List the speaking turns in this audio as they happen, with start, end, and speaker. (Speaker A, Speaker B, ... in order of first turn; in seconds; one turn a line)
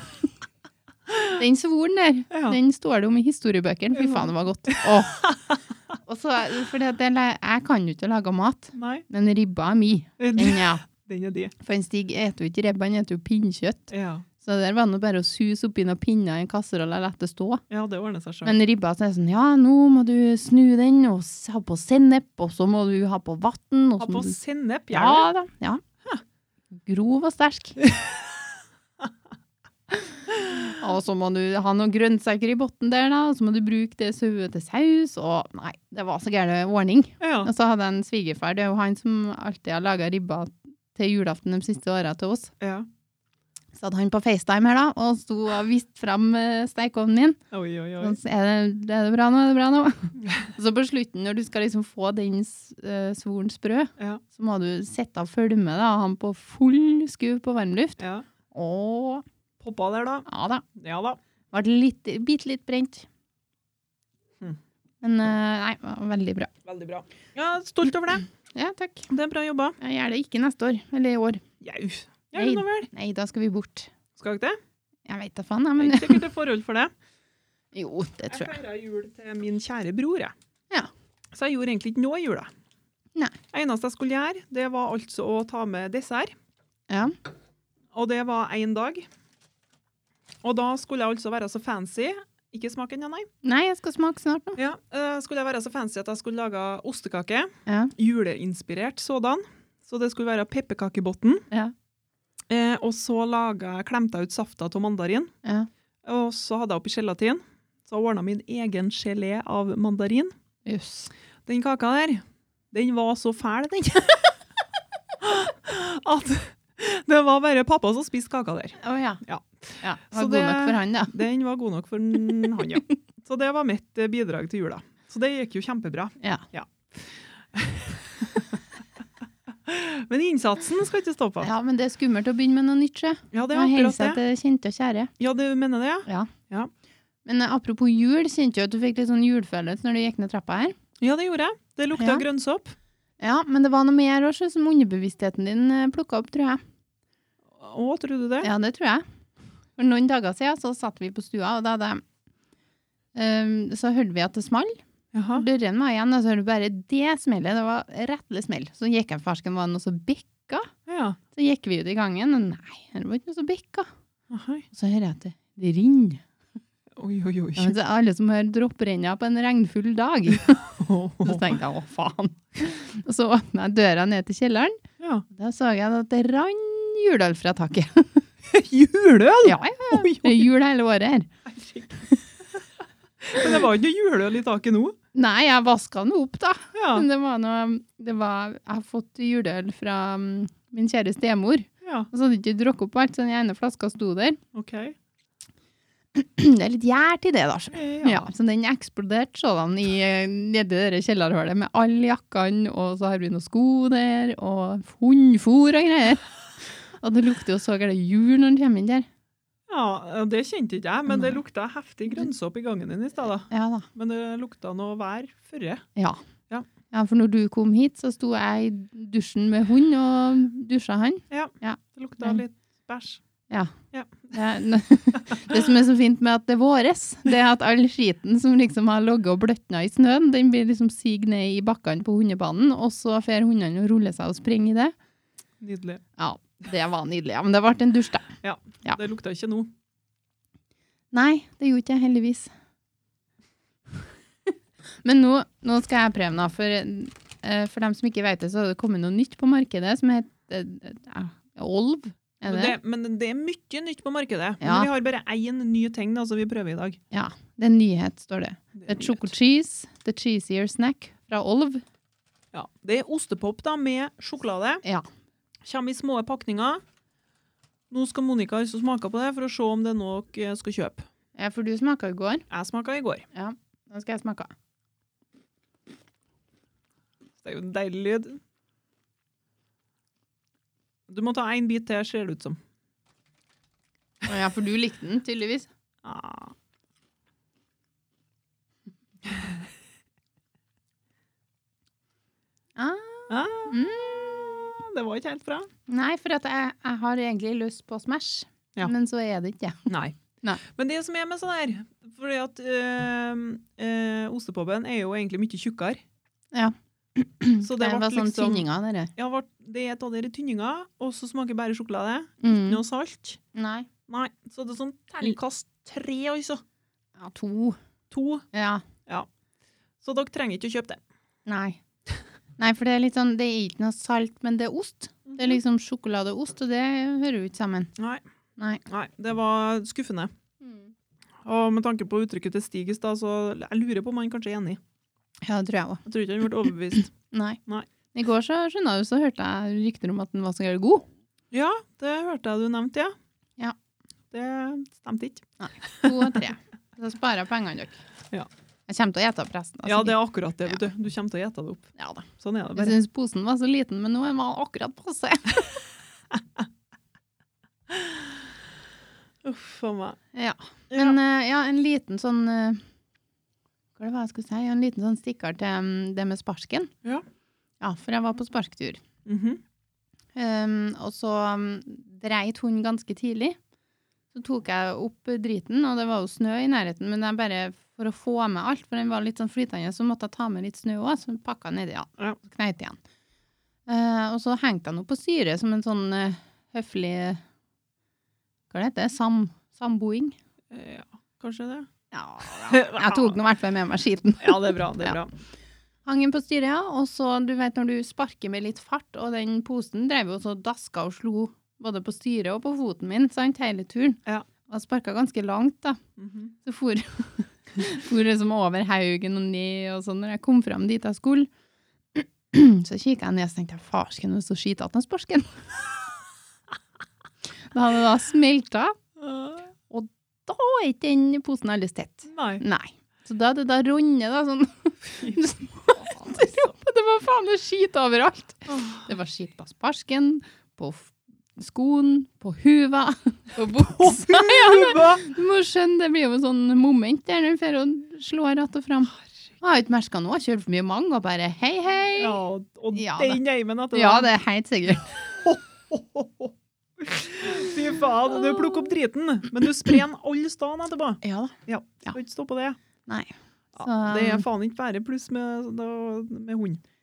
Speaker A: 1.3-5.3
Speaker B: 2.3-2.6
Speaker B: 3.9-5.6
Speaker A: 6.1-10.8
Speaker B: 8.8-9.1
Speaker B: 10.2-11.5
Speaker A: 11.6-17.6
Speaker B: 13.9-14.2
Speaker B: 17.7-18.6
Speaker A: 18.4-24.4
Speaker B: 24.0-25.3
Speaker A: 24.9-25.8
Speaker A: 26.8-27.8
Speaker B: 27.9-28.3
Speaker A: 29.9-42.5
Speaker B: 37.2-37.5
Speaker B: 42.6-42.9
Speaker A: 43.8-47.4
Speaker B: 47.5-48.2
Speaker A: 48.0-58.0
Speaker B: 58.0-58.3
Speaker A: 58.5-59.2
Speaker B: 59.6-61.2
Speaker A: 60.3-60.6
Speaker A: 61.5-63.1
Speaker A: 65.0-66.5
Speaker B: 66.7-68.3
Speaker A: 68.5-69.1
Speaker B: 69.1-69.8
Speaker A: 69.8-71.4
Speaker B: 71.6-72.9
Speaker A: 72.4-73.9
Speaker B: 74.2-74.6
Speaker A: 75.1-76.2
Speaker B: 75.8-76.9
Speaker A: 77.7-78.6
Speaker B: 78.3-80.3
Speaker B: 81.3-82.5
Speaker B: 83.5-86.3
Speaker A: 86.9-87.2
Speaker B: 87.9-89.1
Speaker B: 90.4-93.3
Speaker A: 93.4-94.6
Speaker B: 94.6-101.5
Speaker A: 97.7-97.9
Speaker B: 102.5-105.3
Speaker B: 106.0-110.3
Speaker A: 110.7-111.1
Speaker B: 111.5-114.4
Speaker B: 115.2-128.5
Speaker A: 118.8-119.2
Speaker A: 119.8-121.2
Speaker A: 126.2-126.5
Speaker B: 129.7-131.5
Speaker A: 131.4-135.1
Speaker B: 133.3-134.2
Speaker B: 135.2-136.7
Speaker A: 136.1-136.3
Speaker A: 137.3-140.8
Speaker B: 141.0-142.8
Speaker A: 142.0-142.2
Speaker A: 143.2-146.6
Speaker B: 147.5-148.5
Speaker A: 148.4-149.1
Speaker A: 149.8-152.0
Speaker A: 153.2-154.8
Speaker B: 155.1-155.4
Speaker A: 155.3-160.7
Speaker B: 160.9-161.2
Speaker A: 161.3-163.9
Speaker B: 164.3-164.7
Speaker A: 164.7-166.2
Speaker B: 167.0-167.8
Speaker A: 167.6-170.6
Speaker B: 170.5-171.6
Speaker A: 171.2-178.3
Speaker B: 175.0-175.3
Speaker B: 178.5-180.5
Speaker A: 179.4-181.3
Speaker B: 181.5-182.0
Speaker B: 183.2-185.0
Speaker A: 185.1-194.4
Speaker B: 186.7-187.1
Speaker B: 191.8-192.1
Speaker B: 194.5-194.9
Speaker A: 196.2-209.1
Speaker B: 197.7-198.3
Speaker B: 209.7-215.8
Speaker A: 211.1-211.4
Speaker A: 213.5-213.9
Speaker A: 216.0-216.2
Speaker A: 216.9-222.4
Speaker B: 221.3-223.2
Speaker B: 223.9-224.3
Speaker A: 224.3-234.9
Speaker B: 235.6-236.0
Speaker A: 236.2-238.3
Speaker B: 238.4-239.7
Speaker A: 241.1-242.5
Speaker A: 245.0-252.8
Speaker B: 252.5-257.0
Speaker A: 254.6-254.9
Speaker A: 257.1-261.8
Speaker B: 258.8-259.3
Speaker B: 262.5-264.8
Speaker B: 265.6-266.8
Speaker B: 267.9-271.0
Speaker A: 271.4-272.5
Speaker B: 272.5-273.3
Speaker A: 273.3-274.5
Speaker B: 277.4-278.4
Speaker B: 281.1-282.6
Speaker A: 284.3-285.7
Speaker B: 286.0-286.6
Speaker A: 292.8-294.1
Speaker B: 293.3-295.7
Speaker A: 295.9-299.9
Speaker B: 299.9-306.0
Speaker A: 306.5-309.1
Speaker B: 307.6-313.4
Speaker A: 312.4-312.8
Speaker A: 313.5-313.9
Speaker B: 314.1-316.6
Speaker A: 317.2-317.8
Speaker B: 318.1-318.5
Speaker A: 318.5-318.8
Speaker B: 320.0-321.0
Speaker A: 321.5-321.8
Speaker A: 322.6-327.9
Speaker B: 325.3-325.6
Speaker B: 328.0-328.2
Speaker B: 328.9-330.3
Speaker A: 330.6-330.9
Speaker B: 331.4-334.8
Speaker A: 335.4-336.0
Speaker B: 336.1-337.1
Speaker A: 337.3-337.6
Speaker A: 338.1-341.1
Speaker B: 341.5-343.1
Speaker B: 344.3-346.4
Speaker A: 345.6-348.0
Speaker A: 348.9-350.2
Speaker B: 349.9-353.0
Speaker A: 352.0-355.8
Speaker B: 357.9-358.4
Speaker B: 359.4-360.2
Speaker A: 360.3-362.8
Speaker B: 360.9-361.2
Speaker A: 364.0-366.9
Speaker A: 367.8-369.0
Speaker B: 369.2-369.6
Speaker A: 370.4-373.6
Speaker A: 374.3-383.0
Speaker A: 383.9-387.4
Speaker A: 388.7-390.4
Speaker B: 390.7-391.9
Speaker A: 392.1-395.2
Speaker B: 392.6-393.4
Speaker B: 394.4-395.3
Speaker A: 396.1-406.0
Speaker B: 406.2-406.5
Speaker A: 406.6-411.5
Speaker A: 412.1-415.7
Speaker A: 417.7-419.0
Speaker B: 419.2-419.6
Speaker A: 419.9-442.4
Speaker B: 422.3-422.6
Speaker B: 428.7-429.1
Speaker B: 433.8-435.2
Speaker B: 442.2-444.3
Speaker A: 442.9-443.4
Speaker A: 443.9-445.1
Speaker B: 445.3-452.8
Speaker A: 451.2-451.6
Speaker A: 453.1-454.5
Speaker B: 453.7-456.8